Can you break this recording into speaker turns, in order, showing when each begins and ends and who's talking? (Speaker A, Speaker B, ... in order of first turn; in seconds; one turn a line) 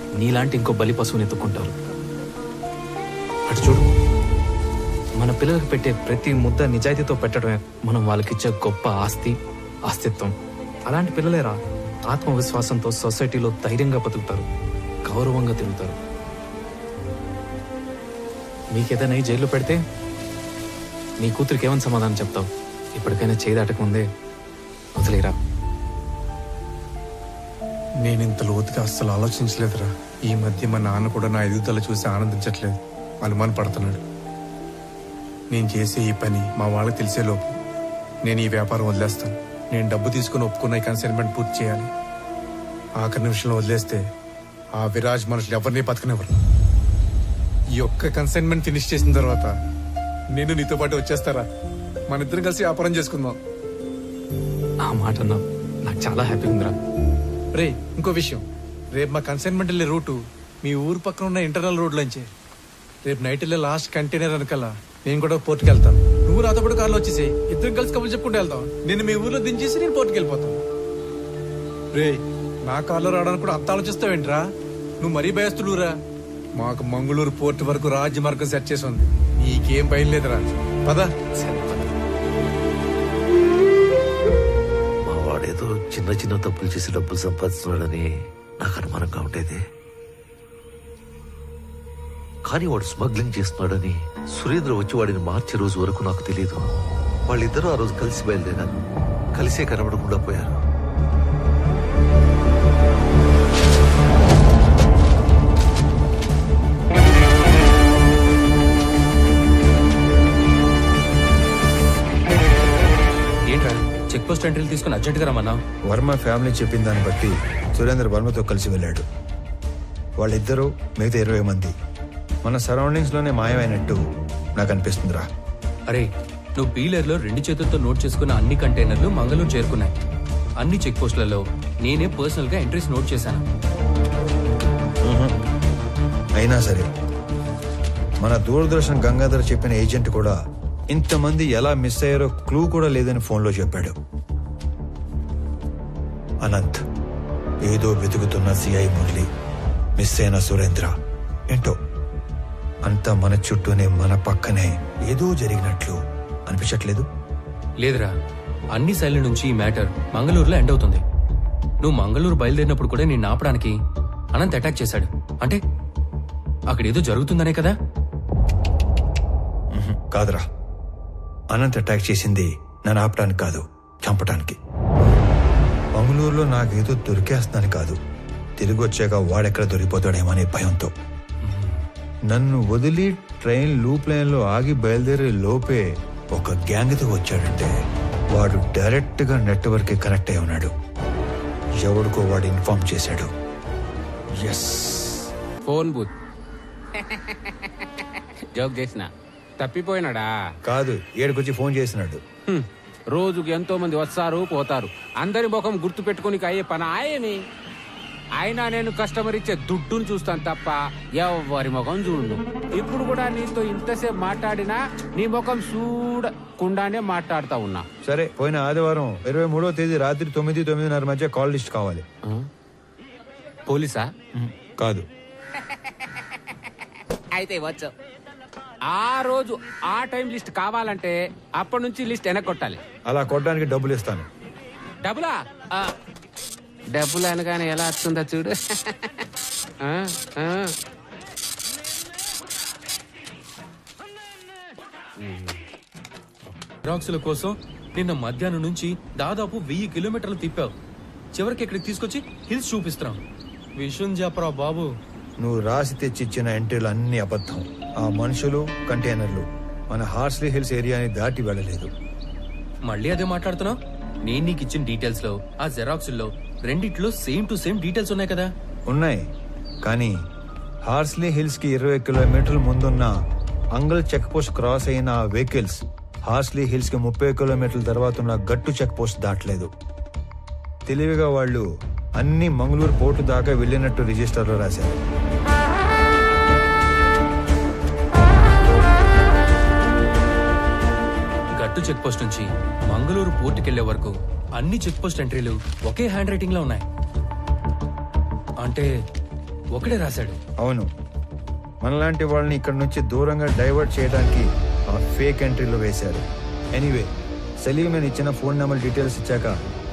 Speaker A: 0.2-1.7
Speaker A: 3.5-3.9
Speaker A: 5.2-9.4
Speaker A: 9.9-10.3
Speaker A: 10.9-14.5
Speaker A: 15.1-16.0
Speaker A: 18.7-19.8
Speaker A: 21.2-24.1
Speaker A: 24.9-25.4
Speaker B: 28.0-34.0
Speaker B: 35.5-37.6
Speaker B: 38.3-41.9
Speaker B: 43.0-44.0
Speaker B: 44.7-46.3
Speaker B: 47.8-49.5
Speaker B: 50.3-51.5
Speaker B: 52.1-53.4
Speaker A: 54.8-56.7
Speaker B: 57.5-62.3
Speaker B: 63.0-70.6
Speaker B: 71.9-74.5
Speaker B: 75.0-75.9
Speaker B: 76.6-81.1
Speaker A: 81.3-81.9
Speaker C: 85.0-89.6
Speaker C: 92.4-96.8
Speaker C: 97.3-98.8
Speaker C: 99.3-100.6
Speaker D: 113.5-115.6
Speaker E: 115.9-119.0
Speaker E: 120.2-121.7
Speaker E: 122.4-124.0
Speaker E: 124.5-125.3
Speaker D: 125.9-129.9
Speaker D: 130.6-133.4
Speaker E: 135.0-135.3
Speaker E: 136.4-136.9
Speaker E: 138.2-140.3
Speaker E: 140.9-143.9
Speaker E: 146.4-146.8
Speaker E: 147.7-149.3
Speaker E: 150.0-150.9
Speaker E: 152.8-156.0
Speaker E: 156.5-157.1
Speaker D: 157.8-158.1
Speaker D: 158.7-161.0
Speaker D: 161.8-163.7
Speaker D: 164.3-165.6
Speaker D: 166.7-167.7
Speaker E: 169.7-170.4
Speaker E: 171.5-174.6
Speaker E: 175.9-178.0
Speaker E: 178.6-180.9
Speaker D: 181.4-181.8
Speaker E: 182.3-187.7
Speaker E: 188.3-190.7
Speaker E: 191.8-193.3
Speaker E: 194.4-195.3
Speaker F: 195.6-196.1
Speaker F: 197.1-197.5
Speaker F: 198.5-200.3
Speaker E: 200.6-202.2
Speaker F: 202.5-207.4
Speaker F: 208.4-217.8
Speaker E: 218.0-222.1
Speaker F: 223.7-224.1
Speaker E: 224.3-225.1
Speaker F: 227.3-227.9
Speaker F: 228.9-232.8
Speaker E: 233.1-234.3
Speaker F: 235.0-235.9
Speaker F: 236.9-238.9
Speaker F: 239.8-240.7
Speaker F: 245.2-245.6
Speaker D: 246.8-250.7
Speaker D: 251.3-253.2
Speaker D: 253.8-254.9
Speaker E: 255.4-261.9
Speaker D: 262.9-268.5
Speaker E: 268.9-269.2
Speaker E: 269.8-270.1
Speaker E: 270.9-273.1
Speaker E: 273.8-279.7
Speaker E: 280.9-281.6
Speaker E: 282.2-285.0
Speaker D: 291.6-296.8
Speaker D: 299.7-300.4
Speaker E: 300.6-300.9
Speaker E: 301.8-306.2
Speaker E: 306.7-307.1
Speaker E: 307.6-309.5